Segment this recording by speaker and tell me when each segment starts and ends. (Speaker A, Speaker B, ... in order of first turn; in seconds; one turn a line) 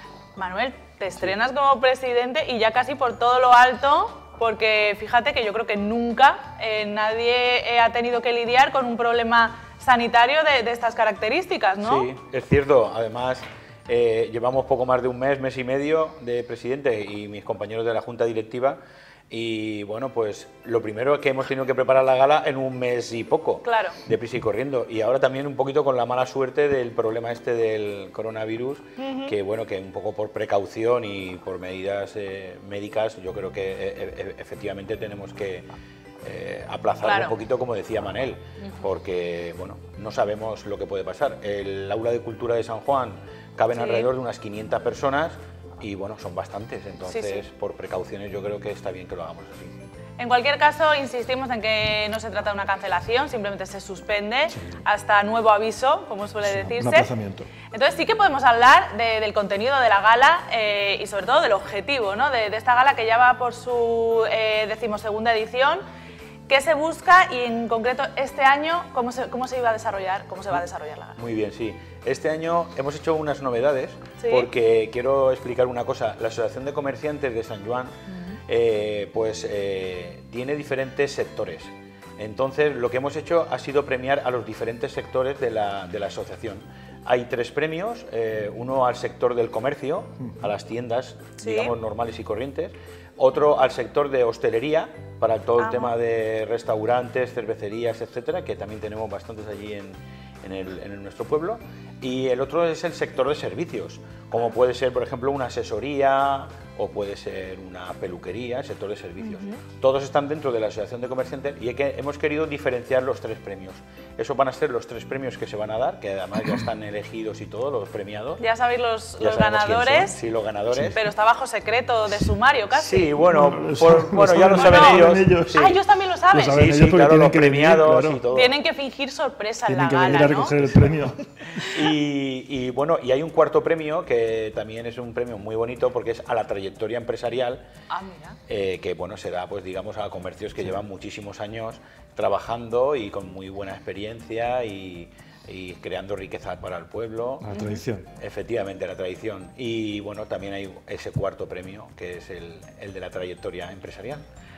Speaker A: 0.3-12.1
Speaker B: 11.8-18.8
Speaker B: 19.3-35.7
Speaker A: 23.6-24.0
Speaker A: 29.0-29.3
Speaker B: 36.2-49.7
Speaker A: 37.0-37.3
Speaker A: 43.7-44.1
Speaker A: 47.1-47.4
Speaker A: 50.2-57.1
Speaker C: 54.5-54.8
Speaker C: 56.4-57.5
Speaker A: 57.7-65.8
Speaker A: 66.5-71.2
Speaker B: 71.2-77.9
Speaker A: 74.2-74.5
Speaker B: 78.5-118.4
Speaker C: 90.2-90.5
Speaker A: 91.4-91.8
Speaker A: 95.6-95.9
Speaker A: 109.2-109.6
Speaker A: 118.4-120.2
Speaker B: 119.2-121.0
Speaker C: 120.7-121.0
Speaker A: 120.9-123.2
Speaker B: 122.7-125.8
Speaker C: 123.2-125.7
Speaker A: 124.5-126.6
Speaker C: 126.3-128.2
Speaker B: 126.5-128.6
Speaker A: 128.3-130.6
Speaker C: 129.7-131.2
Speaker B: 131.7-137.6
Speaker A: 137.9-138.4
Speaker B: 138.5-147.4
Speaker C: 147.4-148.1
Speaker A: 147.5-147.8
Speaker B: 148.2-154.2